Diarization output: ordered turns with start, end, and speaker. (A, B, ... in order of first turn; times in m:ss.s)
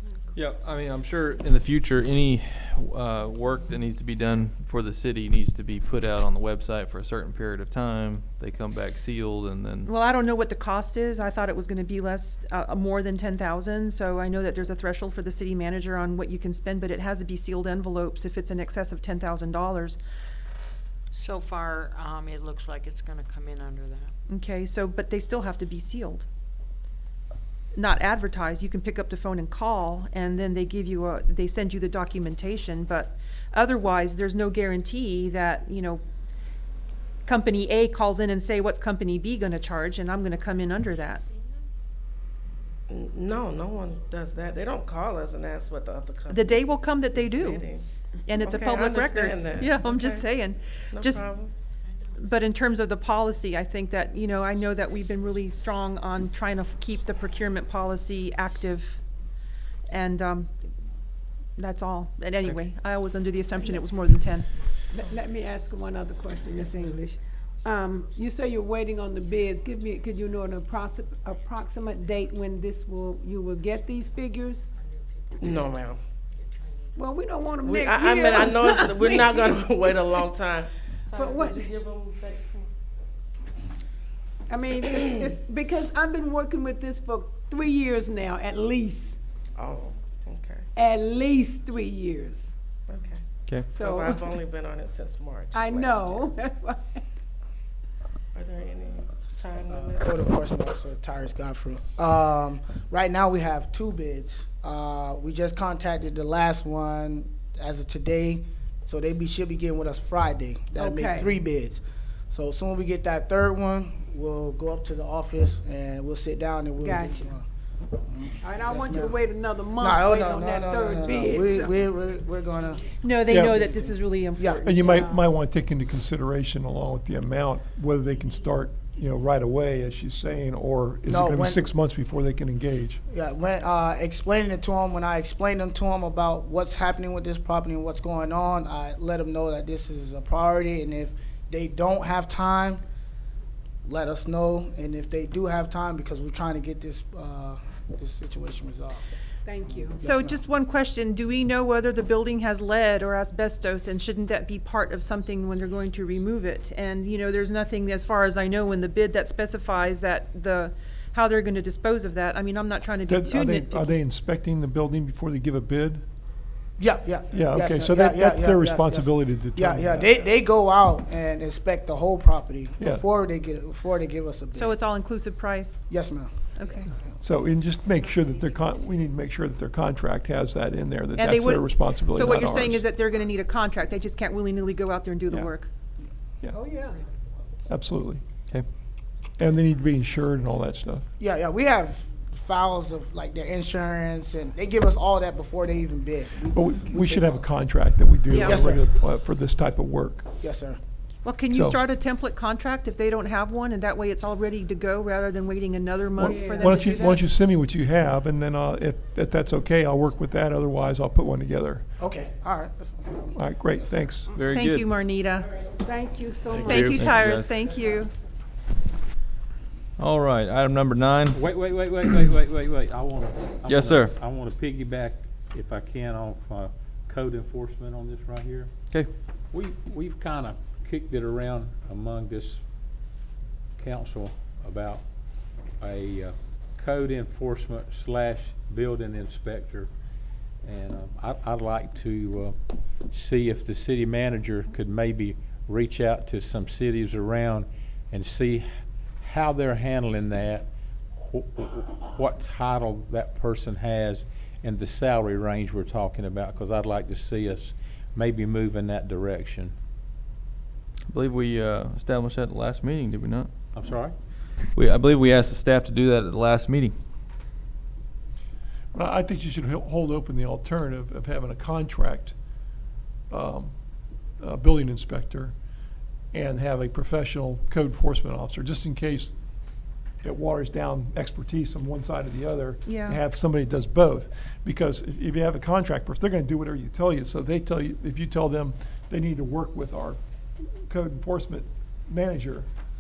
0:00.3-0:09.9 A
0:09.8-0:20.0 B
0:21.1-0:24.1 C
0:24.3-0:26.3 B
0:27.8-0:36.0 B
0:37.3-0:41.2 B
0:42.9-0:47.9 D
0:46.3-0:47.7 B
0:48.3-0:51.3 B
0:48.4-0:50.3 D
0:50.9-0:51.5 D
0:52.2-0:59.0 B
0:59.9-1:00.5 B
1:01.6-1:04.5 B
1:04.9-1:14.7 E
1:14.8-1:15.7 C
1:15.4-1:16.0 D
1:16.3-1:16.9 C
1:17.0-1:19.6 E
1:17.6-1:22.7 D
1:21.1-1:21.7 E
1:24.5-1:29.2 E
1:24.7-1:25.2 D
1:29.6-1:30.7 D
1:30.8-1:32.5 E
1:32.9-1:36.3 D
1:33.7-1:34.4 E
1:35.5-1:37.0 E
1:38.3-1:40.2 D
1:39.7-1:57.5 F
1:50.8-1:51.3 E
1:56.8-1:57.3 E
1:58.0-1:59.2 F
1:58.4-2:01.9 E
1:59.8-2:04.7 F
2:03.0-2:05.1 B
2:03.3-2:03.6 G
2:04.6-2:13.0 G
2:04.9-2:05.3 E
2:11.1-2:11.7 F
2:13.1-2:22.8 F
2:23.8-2:29.1 F
2:29.4-2:30.0 E
2:29.6-2:30.4 F
2:30.0-2:43.9 B
2:43.1-2:46.0 G
2:46.8-2:54.8 F
2:47.3-2:50.2 G
2:52.8-2:53.1 G
2:54.5-2:55.8 B
2:55.9-2:56.3 F
2:56.6-2:56.9 B
2:57.2-3:02.9 G
3:01.2-3:05.7 B
3:06.5-3:07.0 E
3:07.7-3:08.2 G
3:09.4-3:11.1 G
3:11.2-3:17.6 F
3:16.5-3:20.3 G
3:18.3-3:18.7 B
3:18.3-3:18.8 F
3:20.4-3:20.8 F
3:21.2-3:27.2 B
3:21.5-3:21.8 G
3:26.2-3:31.9 G
3:26.2-3:26.8 E
3:32.0-3:34.2 F
3:33.4-3:34.3 G
3:34.3-3:34.9 A
3:34.5-3:35.6 B
3:35.8-3:36.9 E
3:36.5-3:37.5 A
3:36.6-3:38.1 B
3:40.0-3:41.4 A
3:41.3-3:48.8 H
3:43.7-3:44.1 A
3:49.5-3:52.6 H
3:53.8-3:55.0 H
3:55.8-3:59.9 H
4:00.6-4:19.7 H
4:21.1-4:23.5 A
4:23.8-4:24.2 H
4:24.6-4:27.0 A
4:28.9-4:32.4 G
4:33.3-4:33.7 G
4:34.4-4:35.5 G
4:36.3-4:39.4 G
4:40.2-4:50.2 G
4:42.8-4:43.2 B
4:50.9-4:52.7 G